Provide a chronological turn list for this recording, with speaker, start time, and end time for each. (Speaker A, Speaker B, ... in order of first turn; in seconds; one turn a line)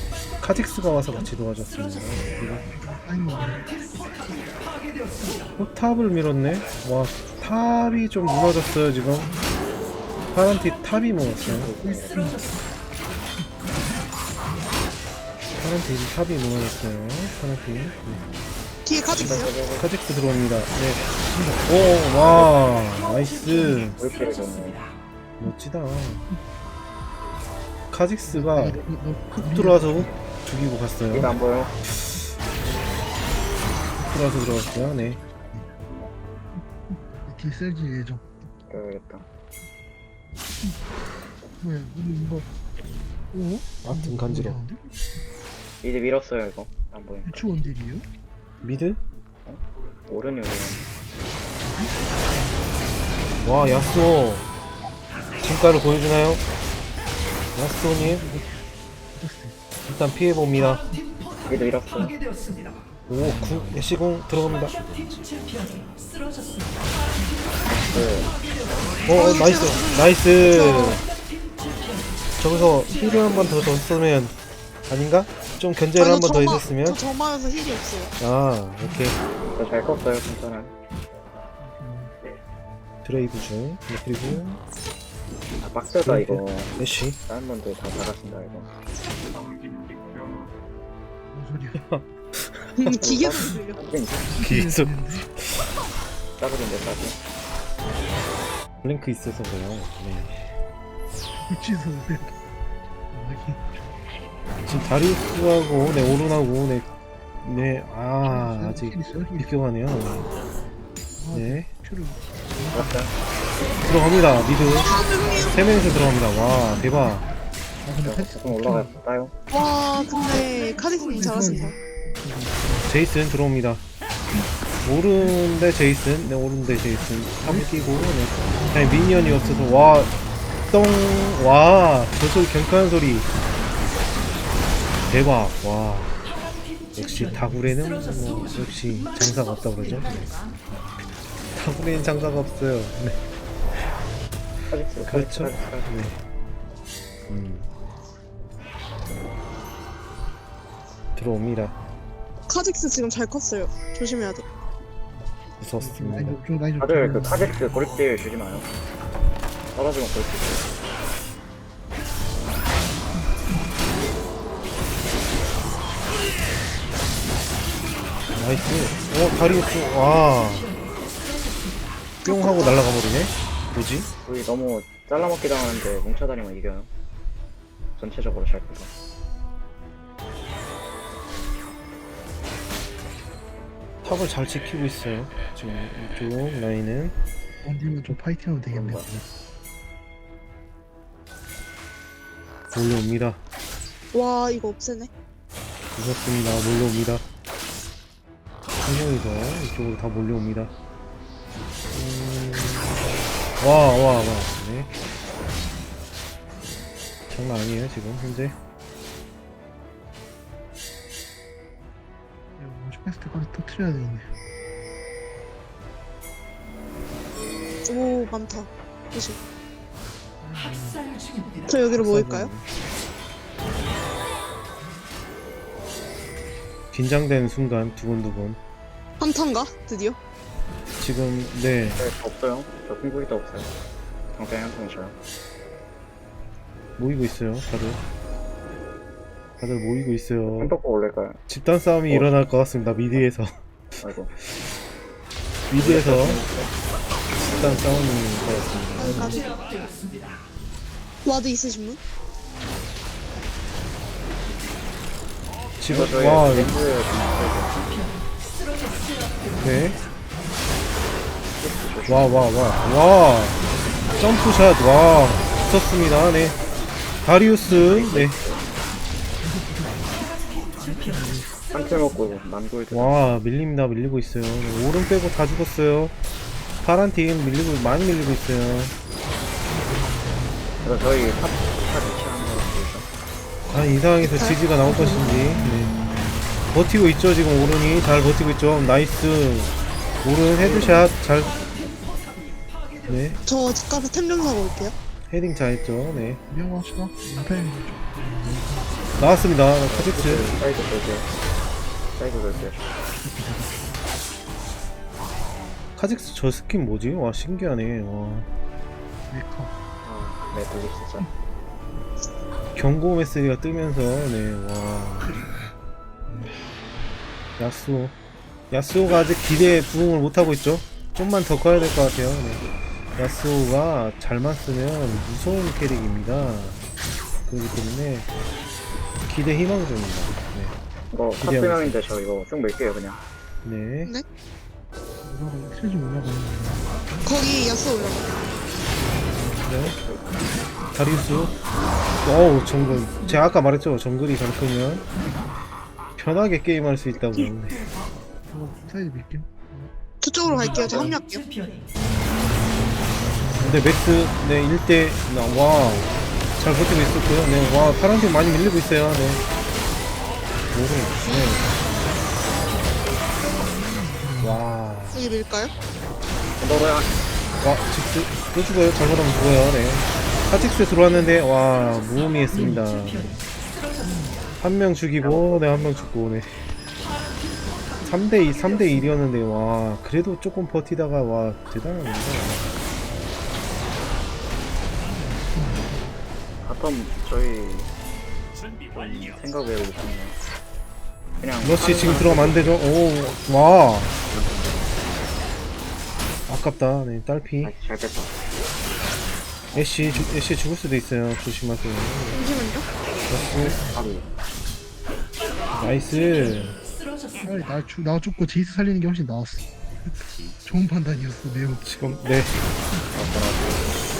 Speaker A: 0.4-2.7
Speaker B: 2.7-3.6
Speaker A: 5.6-9.3
Speaker A: 10.3-11.8
Speaker C: 11.5-12.3
Speaker B: 11.8-12.6
Speaker A: 15.6-18.2
Speaker D: 18.9-19.5
Speaker C: 19.1-19.9
Speaker A: 19.8-21.0
Speaker B: 21.3-21.6
Speaker A: 21.6-24.0
Speaker C: 22.2-22.5
Speaker C: 24.0-24.8
Speaker A: 25.4-26.3
Speaker A: 27.9-28.8
Speaker B: 28.3-30.1
Speaker A: 29.4-31.4
Speaker C: 31.1-31.8
Speaker A: 34.0-35.2
Speaker B: 34.9-35.7
Speaker B: 37.3-38.4
Speaker C: 38.7-39.2
Speaker B: 41.6-42.5
Speaker B: 43.3-44.9
Speaker A: 43.8-44.6
Speaker C: 45.8-47.5
Speaker B: 47.2-48.0
Speaker A: 48.6-49.0
Speaker C: 49.5-50.9
Speaker B: 51.6-52.6
Speaker A: 53.4-54.5
Speaker B: 53.6-54.0
Speaker A: 55.4-56.4
Speaker A: 57.5-58.3
Speaker B: 58.0-58.6
Speaker B: 59.1-59.6
Speaker A: 59.9-60.8
Speaker C: 61.5-62.2
Speaker A: 63.1-64.8
Speaker C: 67.7-68.3
Speaker A: 69.1-71.0
Speaker D: 69.1-71.0
Speaker A: 72.4-74.3
Speaker A: 74.9-77.0
Speaker D: 76.0-78.2
Speaker A: 78.2-79.2
Speaker C: 79.5-80.7
Speaker B: 81.6-82.1
Speaker A: 83.0-84.5
Speaker B: 84.2-84.6
Speaker C: 85.6-88.7
Speaker A: 86.0-87.2
Speaker B: 91.3-91.8
Speaker D: 92.8-93.8
Speaker C: 93.0-94.3
Speaker B: 94.3-95.3
Speaker A: 94.4-95.7
Speaker C: 96.4-97.2
Speaker A: 98.8-100.4
Speaker B: 101.4-102.3
Speaker B: 103.1-103.8
Speaker A: 104.7-106.9
Speaker A: 107.4-110.3
Speaker B: 108.3-109.5
Speaker B: 111.2-113.1
Speaker A: 111.3-111.7
Speaker C: 112.7-113.1
Speaker A: 113.8-117.3
Speaker D: 114.8-115.6
Speaker B: 117.8-119.0
Speaker C: 118.0-119.3
Speaker D: 119.5-121.8
Speaker B: 121.2-122.9
Speaker A: 122.9-123.8
Speaker A: 124.8-130.1
Speaker B: 127.4-127.8
Speaker A: 130.7-133.3
Speaker A: 135.1-136.2
Speaker A: 137.0-140.2
Speaker A: 141.5-143.2
Speaker C: 144.7-145.9
Speaker A: 145.1-146.2
Speaker A: 147.3-147.7
Speaker A: 151.2-151.8
Speaker D: 152.5-154.4
Speaker A: 155.6-156.4
Speaker B: 155.8-157.6
Speaker C: 156.8-158.7
Speaker C: 159.8-160.7
Speaker A: 168.3-170.7
Speaker D: 172.2-172.8
Speaker A: 172.3-174.1
Speaker C: 174.2-176.9
Speaker C: 178.0-178.9
Speaker A: 184.0-187.1
Speaker B: 187.6-189.2
Speaker C: 188.7-189.1
Speaker A: 192.7-193.4
Speaker D: 194.1-195.1
Speaker A: 196.0-197.2
Speaker A: 198.8-200.7
Speaker A: 201.9-204.9
Speaker A: 207.3-208.6
Speaker B: 212.6-214.3
Speaker D: 217.9-219.4
Speaker B: 220.4-221.1
Speaker D: 221.7-222.5
Speaker A: 221.9-222.7
Speaker A: 226.9-228.6
Speaker D: 229.2-230.2
Speaker A: 231.0-232.1
Speaker C: 231.9-233.7
Speaker C: 234.3-235.1
Speaker A: 237.0-238.0
Speaker A: 239.6-240.7
Speaker C: 240.5-241.4
Speaker A: 241.5-243.5
Speaker C: 242.1-242.4
Speaker C: 244.0-244.3
Speaker A: 245.7-246.4
Speaker C: 245.8-246.7
Speaker A: 247.4-249.5
Speaker D: 249.0-249.5
Speaker D: 251.2-252.0
Speaker A: 255.8-256.8
Speaker C: 255.9-258.0
Speaker A: 259.6-260.0
Speaker C: 261.6-262.5
Speaker A: 262.1-263.6
Speaker A: 264.2-266.6
Speaker A: 267.2-268.4
Speaker C: 267.7-268.6
Speaker B: 269.4-270.1
Speaker B: 270.7-271.6
Speaker C: 271.7-273.4
Speaker A: 272.9-276.1
Speaker A: 276.8-278.9
Speaker B: 279.7-281.5
Speaker C: 280.8-283.1
Speaker A: 282.4-282.7
Speaker A: 283.7-286.0
Speaker D: 284.4-285.3
Speaker A: 286.7-289.7
Speaker A: 290.2-291.6
Speaker C: 290.6-291.1
Speaker A: 293.1-293.4
Speaker D: 293.5-294.9
Speaker A: 295.3-296.4
Speaker B: 296.5-298.9
Speaker A: 299.2-300.5
Speaker C: 299.9-301.3
Speaker C: 302.2-302.9
Speaker B: 303.2-304.0
Speaker A: 306.0-308.5
Speaker B: 309.3-309.7
Speaker C: 310.0-311.3
Speaker A: 312.8-315.4
Speaker A: 317.6-318.1
Speaker A: 318.7-322.6
Speaker A: 323.2-326.8
Speaker A: 327.5-328.3
Speaker A: 329.3-330.8
Speaker C: 331.1-333.2
Speaker A: 331.4-332.1
Speaker A: 333.6-334.1
Speaker B: 335.2-336.9
Speaker D: 337.2-338.3
Speaker A: 339.6-340.0
Speaker C: 339.8-340.3
Speaker A: 340.9-341.6
Speaker A: 342.2-345.1
Speaker A: 346.2-347.8
Speaker B: 348.5-349.9
Speaker D: 350.2-351.4
Speaker B: 350.4-351.2
Speaker B: 353.3-353.9
Speaker A: 353.6-359.4
Speaker A: 360.7-361.7
Speaker B: 363.5-364.6
Speaker A: 364.4-365.2
Speaker D: 365.1-365.7
Speaker C: 366.6-367.2
Speaker A: 367.6-373.4
Speaker B: 372.5-372.9
Speaker B: 374.0-374.5
Speaker A: 374.6-376.7
Speaker C: 375.2-376.1
Speaker A: 378.1-382.7
Speaker B: 385.0-386.2
Speaker C: 386.6-387.9
Speaker C: 388.9-390.4
Speaker C: 391.4-392.9
Speaker A: 391.6-394.2
Speaker C: 394.3-394.9
Speaker A: 396.5-397.7
Speaker C: 397.6-398.4
Speaker A: 399.7-402.4
Speaker D: 402.3-402.9
Speaker A: 403.3-403.8
Speaker B: 403.6-403.9
Speaker C: 403.9-404.2
Speaker A: 405.7-406.8
Speaker B: 407.4-409.7
Speaker B: 410.6-411.9
Speaker A: 411.8-412.6
Speaker C: 413.1-413.9